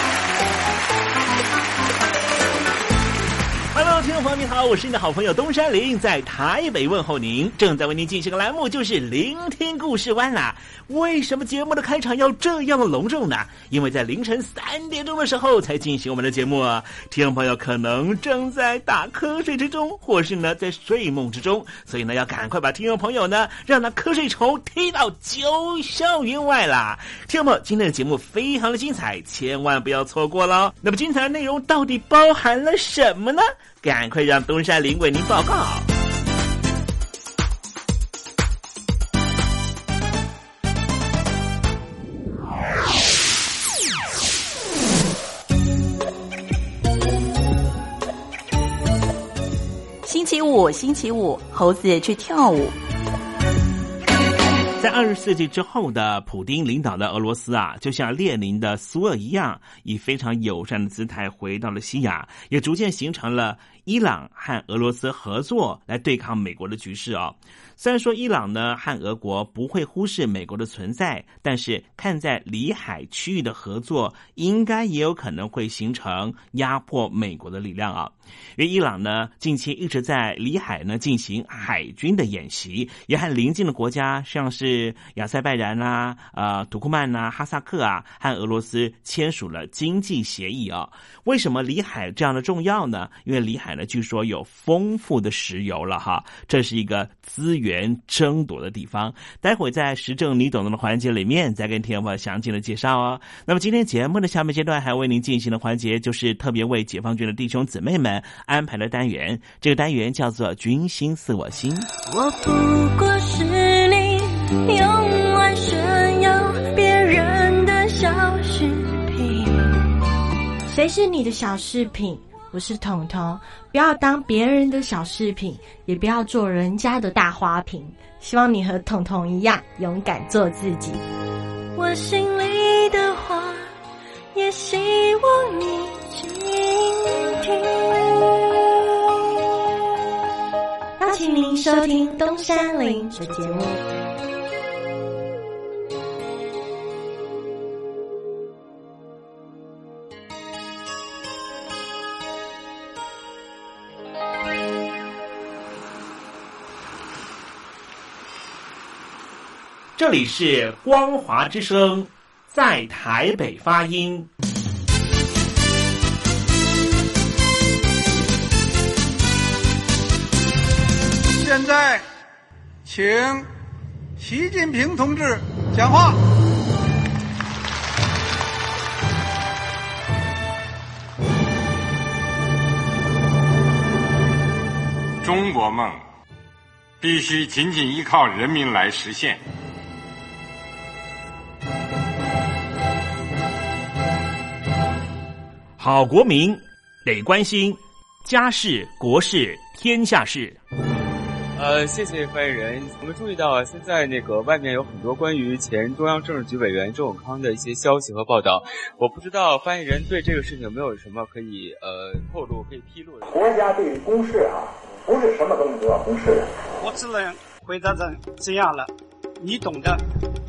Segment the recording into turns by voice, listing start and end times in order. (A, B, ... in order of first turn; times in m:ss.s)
0:03.7-0:35.9 A
0:50.0-0:52.7 B
0:54.8-1:51.9 A
1:52.0-1:59.6 C
2:00.7-2:11.0 D
2:11.7-2:13.8 C
2:14.3-2:18.8 C
2:21.0-2:23.8 D
2:40.0-2:44.3 A
2:51.4-2:52.0 E
2:52.8-2:53.4 E
2:54.2-2:56.2 E
3:05.2-3:06.0 F
3:07.0-3:09.4 F
3:15.8-3:20.6 A
3:21.6-3:33.6 G
3:33.2-3:36.6 H
3:36.8-3:40.0 I